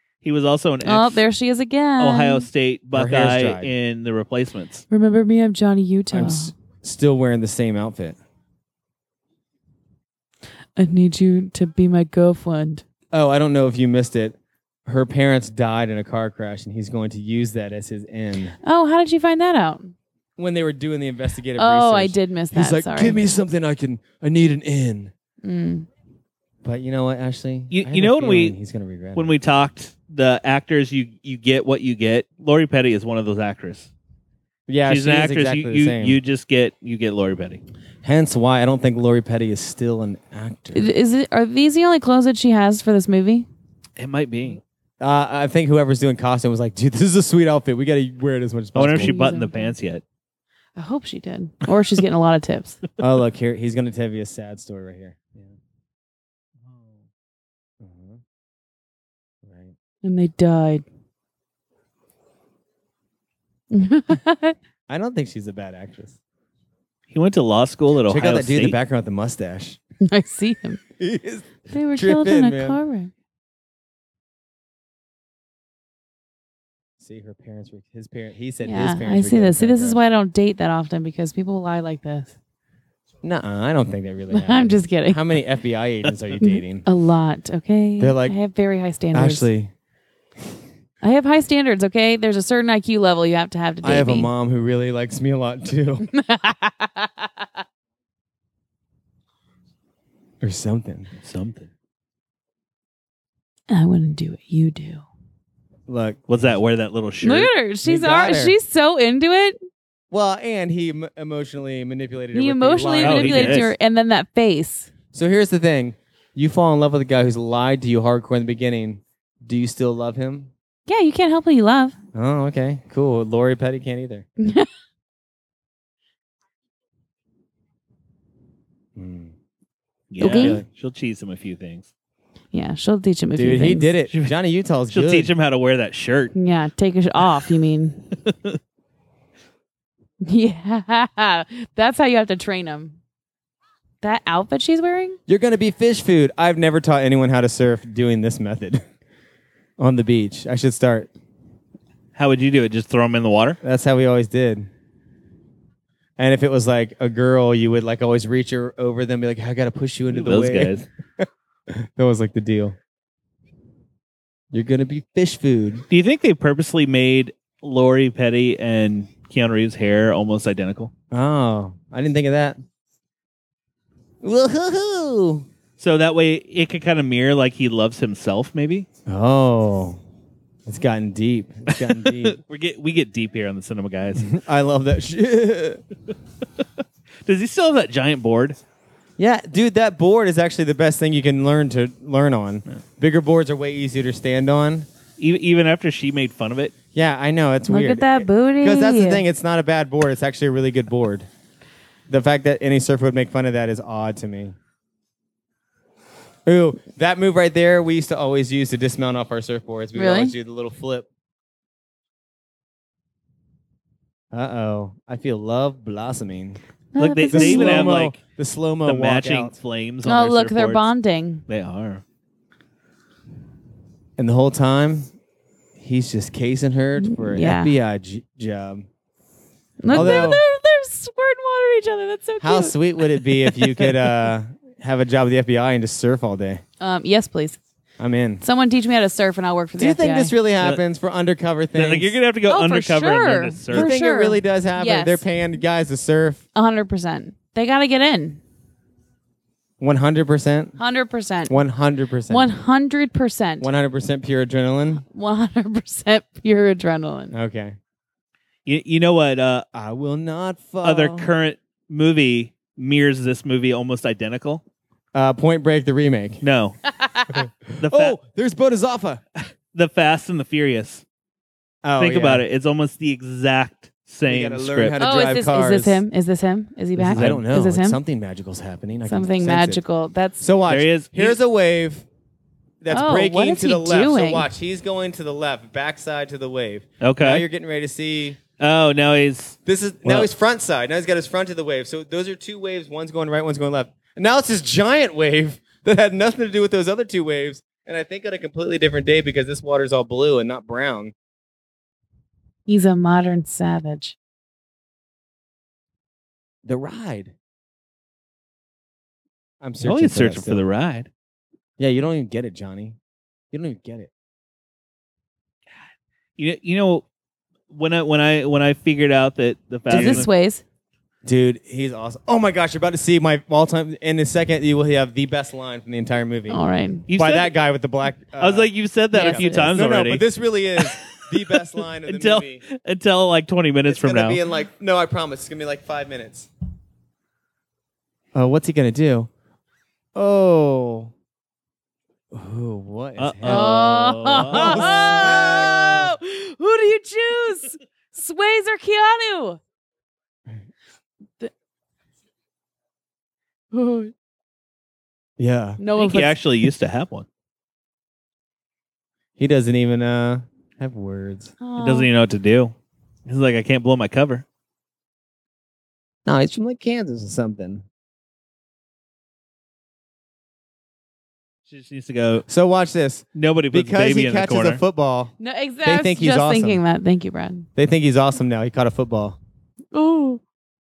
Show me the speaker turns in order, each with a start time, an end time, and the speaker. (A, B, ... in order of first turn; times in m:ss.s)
0:00.2-0:01.2 A
0:00.8-0:02.5 B
0:02.0-0:04.8 A
0:02.9-0:03.7 C
0:04.9-0:06.5 B
0:06.1-0:08.2 C
0:10.8-0:12.8 B
0:13.1-0:18.6 C
0:18.6-0:19.9 B
0:20.4-0:25.1 C
0:21.6-0:23.2 B
0:25.4-0:25.9 B
0:26.6-0:29.3 C
0:27.7-0:28.6 A
0:29.2-0:33.9 A
0:34.7-0:36.2 C
0:34.9-0:37.6 A
0:38.0-0:40.9 C
0:40.7-0:43.5 B
0:44.0-0:44.6 A
0:45.0-0:49.1 C
0:48.8-0:50.0 A
0:49.0-0:49.8 B
0:50.8-0:52.8 B
0:53.0-0:55.6 C
0:56.7-0:56.9 A
0:57.8-0:58.2 C
0:59.4-0:59.8 C
1:00.0-1:00.8 B
1:03.7-1:04.6 B
1:04.9-1:06.2 C
1:07.1-1:08.8 A
1:08.1-1:09.8 C
1:10.1-1:10.8 B
1:11.0-1:12.8 C
1:11.7-1:13.1 B
1:17.0-1:20.0 C
1:18.6-1:22.3 B
1:23.2-1:26.9 C
1:24.3-1:25.2 B
1:26.4-1:29.4 B
1:28.0-1:28.4 C
1:29.1-1:29.7 C
1:31.0-1:34.3 B
1:33.8-1:36.1 C
1:36.1-1:37.4 B
1:40.4-1:41.1 C
1:41.2-1:41.7 A
1:43.7-1:45.0 B
1:45.9-1:46.2 C
1:46.3-1:47.5 A
1:47.2-1:49.6 B
1:47.8-1:48.6 C
1:50.1-1:53.7 C
1:52.3-1:54.9 B
1:53.0-1:53.7 A
1:55.1-2:00.5 C
2:00.9-2:02.0 B
2:02.1-2:04.3 C
2:04.4-2:04.7 B
2:09.0-2:09.3 C
2:10.1-2:11.9 A
2:10.2-2:10.6 B
2:10.2-2:10.7 C
2:12.5-2:13.9 B
2:13.4-2:15.3 C
2:14.9-2:16.3 A
2:16.4-2:18.0 B
2:18.2-2:18.6 A
2:20.2-2:23.0 B
2:24.0-2:25.2 B
2:25.3-2:28.8 C
2:29.8-2:31.1 C
2:32.2-2:33.6 A
2:33.6-2:34.7 C
2:36.2-2:42.8 C
2:40.1-2:40.9 A
2:44.5-2:45.8 C
2:45.9-2:50.9 A
2:51.1-2:52.6 C
2:54.2-2:55.5 C
2:55.8-2:58.9 A
2:59.1-3:00.0 C
3:00.7-3:02.4 C
3:01.7-3:04.3 A
3:04.2-3:05.8 C
3:07.3-3:08.6 A
3:09.2-3:14.9 C
3:15.2-3:16.7 A
3:16.9-3:21.3 C
3:17.7-3:19.2 B
3:22.1-3:24.6 C
3:26.5-3:31.1 C
3:30.0-3:30.3 B
3:34.3-3:36.6 C
3:36.9-3:38.0 B
3:37.0-3:38.2 A
3:37.3-3:39.6 C
3:38.8-3:40.9 A
3:40.0-3:41.5 B
3:41.5-3:42.0 A
3:44.2-3:45.1 C
3:45.8-3:48.9 C
3:47.0-3:47.7 B
3:49.8-3:52.8 B
3:49.9-3:50.3 A
3:49.9-3:50.4 C
3:52.4-3:56.6 C
3:56.8-3:57.6 B
3:58.0-3:58.4 C
3:58.4-4:00.3 B
3:59.8-4:02.2 C
4:01.8-4:03.9 A
4:02.5-4:05.2 B
4:03.7-4:06.4 C
4:06.6-4:08.4 B
4:09.8-4:10.8 C
4:10.8-4:11.6 B
4:11.5-4:12.5 C
4:12.3-4:13.7 B
4:13.6-4:15.0 C
4:15.1-4:17.4 B
4:17.3-4:17.8 C
4:18.7-4:19.7 A
4:19.7-4:21.3 C
4:20.8-4:24.6 A
4:25.1-4:26.4 C
4:26.4-4:26.8 A
4:27.0-4:27.4 B
4:27.4-4:29.2 C
4:27.8-4:28.2 A
4:29.7-4:31.0 A
4:31.8-4:32.4 C
4:32.0-4:35.0 A
4:34.3-4:36.0 C
4:35.0-4:38.0 B
4:37.0-4:39.8 C
4:37.0-4:37.4 A
4:39.1-4:40.4 B
4:40.4-4:42.1 C
4:40.7-4:41.4 A
4:42.8-4:48.4 C
4:42.9-4:44.5 B
4:47.0-4:47.4 A
4:48.6-4:50.3 A
4:49.6-5:01.1 C
5:02.7-5:04.2 B
5:06.6-5:07.3 C
5:09.6-5:10.6 C
5:09.8-5:11.1 A
5:11.8-5:13.0 C
5:13.5-5:14.1 C
5:16.4-5:17.0 A
5:17.7-5:20.3 A
5:19.9-5:20.3 C
5:19.9-5:20.6 B
5:21.2-5:26.6 C
5:26.5-5:27.1 B
5:27.1-5:27.5 A
5:27.2-5:32.6 C
5:28.4-5:30.2 A
5:29.1-5:29.7 B
5:30.8-5:31.3 A
5:32.0-5:34.4 A
5:33.9-5:36.5 C
5:38.3-5:39.3 C
5:40.2-5:41.1 C
5:42.3-5:46.2 C
5:43.2-5:45.1 A
5:43.4-5:49.6 B
5:53.7-5:54.1 B
5:55.4-5:55.8 C
5:55.8-5:56.4 B
5:56.0-5:57.3 A
5:59.4-6:01.5 C
6:01.6-6:02.1 B
6:01.8-6:02.8 A
6:03.3-6:04.4 A
6:06.2-6:07.9 C
6:11.7-6:12.5 A
6:12.5-6:15.3 C
6:13.4-6:14.8 A
6:15.4-6:17.7 B
6:15.8-6:16.8 C
6:17.8-6:19.4 C
6:19.9-6:20.4 B